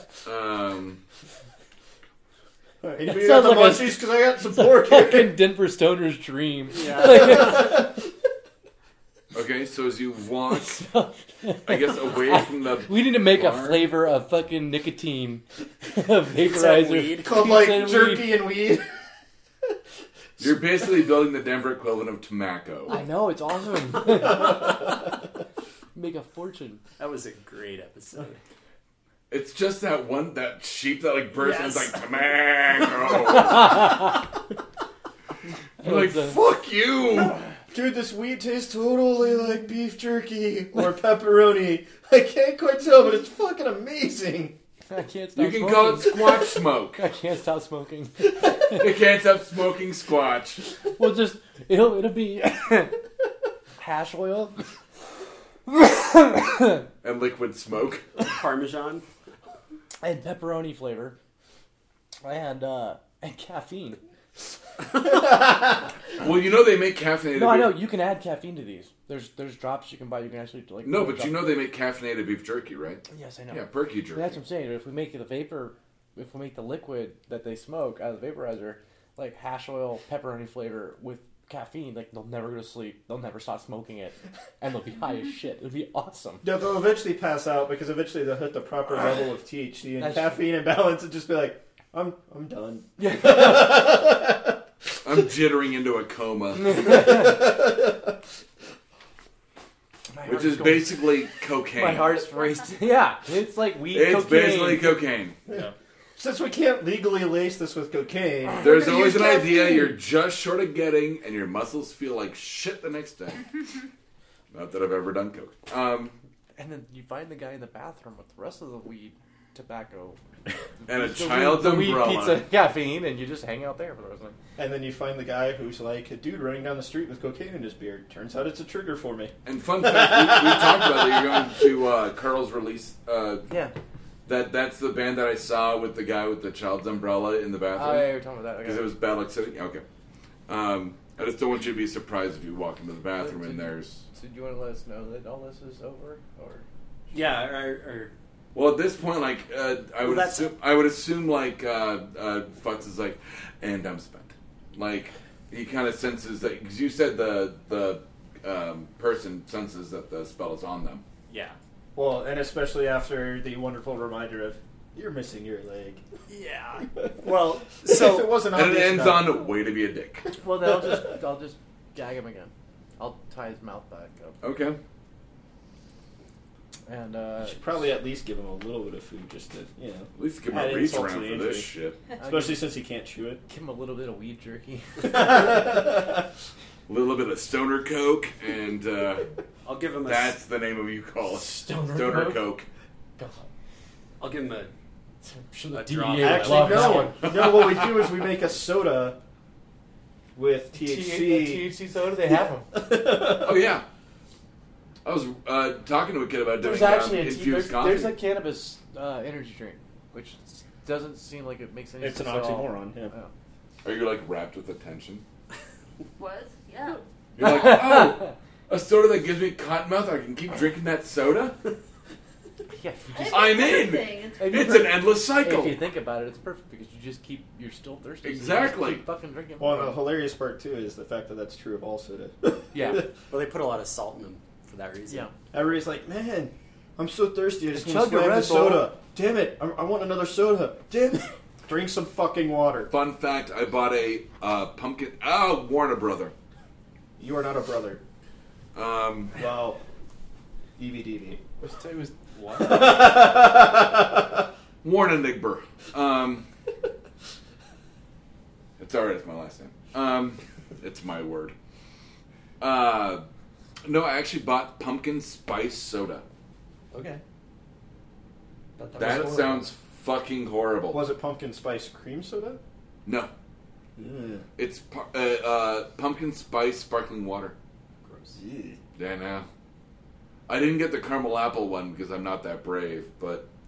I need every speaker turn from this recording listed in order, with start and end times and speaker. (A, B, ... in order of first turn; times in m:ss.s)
0:00.2-0:01.0 A
0:02.8-0:05.4 B
0:03.1-0:07.8 C
0:06.7-0:07.5 D
0:07.1-0:07.8 B
0:09.3-0:10.8 A
0:10.5-0:18.4 C
0:11.6-0:13.9 A
0:16.4-0:17.3 D
0:17.2-0:19.0 B
0:20.4-0:23.0 A
0:22.9-0:25.1 C
0:25.9-0:26.8 C
0:27.0-0:28.4 D
0:29.3-0:34.0 A
0:33.6-0:33.9 C
0:35.8-0:36.4 C
0:35.8-0:37.4 A
0:37.7-0:44.6 B
0:44.9-0:48.8 C
0:45.4-0:47.0 A
0:48.7-0:50.6 A
0:51.0-0:53.0 C
0:53.8-0:54.6 C
0:55.7-0:56.8 C
0:57.0-0:58.1 A
0:58.2-0:59.0 D
1:00.0-1:01.2 C
1:02.2-1:04.0 C
1:06.2-1:07.8 A
1:07.3-1:11.5 C
1:10.8-1:14.4 A
1:13.1-1:26.4 C
1:26.4-1:34.6 B
1:30.0-1:30.4 C
1:33.0-1:33.9 C
1:35.0-1:36.9 A
1:36.6-1:37.5 C
1:36.8-1:38.2 B
1:40.1-1:41.0 C
1:40.2-1:42.2 A
1:41.7-1:45.0 C
1:43.9-1:45.4 A
1:45.5-1:49.5 B
1:45.5-1:45.7 D
1:48.6-1:53.6 A
1:54.5-1:56.2 A
1:56.6-2:00.2 C
2:00.8-2:04.4 C
2:00.9-2:02.5 A
2:04.6-2:11.0 B
2:09.4-2:13.5 A
2:13.5-2:13.7 C
2:14.2-2:19.8 A
2:17.7-2:18.9 C
2:20.5-2:24.0 A
2:23.2-2:26.6 C
2:27.1-2:28.1 D
2:28.5-2:41.0 A
2:30.0-2:30.5 D
2:41.3-2:41.6 D
2:41.9-2:46.0 B
2:46.3-2:48.4 D
2:47.8-2:49.4 B
2:48.5-2:50.3 A
2:50.4-2:54.4 C
2:54.4-2:54.8 A
2:56.9-2:57.8 C
2:57.4-3:01.7 B
3:00.2-3:02.0 A
3:02.2-3:02.7 C
3:02.2-3:03.4 B
3:03.5-3:05.6 C
3:05.0-3:06.2 B
3:06.9-3:09.3 A
3:09.6-3:10.4 D
3:10.0-3:12.7 A
3:11.4-3:12.4 C
3:13.2-3:13.5 C
3:14.2-3:14.7 D
3:15.2-3:17.3 C
3:15.6-3:17.4 D
3:16.2-3:19.2 B
3:20.3-3:21.7 B
3:20.7-3:22.7 C
3:22.7-3:23.8 B
3:23.2-3:23.8 A
3:25.0-3:28.2 A
3:26.6-3:33.3 C
3:32.0-3:33.1 B
3:33.8-3:35.2 A
3:36.2-3:37.0 E
3:37.4-3:41.6 A
3:37.4-3:38.3 C
3:42.8-3:43.5 C
3:43.1-3:44.7 E
3:43.3-3:45.8 A
3:44.4-3:50.0 C
3:48.2-3:49.0 A
3:49.6-3:53.1 B
3:52.7-3:53.0 C
3:53.3-3:55.3 D
3:55.5-4:02.9 B
3:57.7-3:58.9 C
4:02.9-4:06.3 A
4:07.2-4:08.0 B
4:08.7-4:09.3 A
4:09.3-4:09.8 B
4:10.8-4:11.4 B
4:11.6-4:13.0 C
4:12.6-4:14.4 B
4:14.8-4:16.5 A
4:18.8-4:21.5 A
4:22.6-4:23.3 A
4:23.8-4:26.2 A
4:26.9-4:27.2 D
4:28.8-4:29.7 D
4:29.0-4:31.0 A
4:30.9-4:32.6 B
4:33.0-4:33.3 A
4:34.0-4:34.4 B
4:34.6-4:37.5 A
4:38.0-4:38.4 D
4:38.4-4:38.8 B
4:39.0-4:39.5 A
4:40.5-4:43.5 A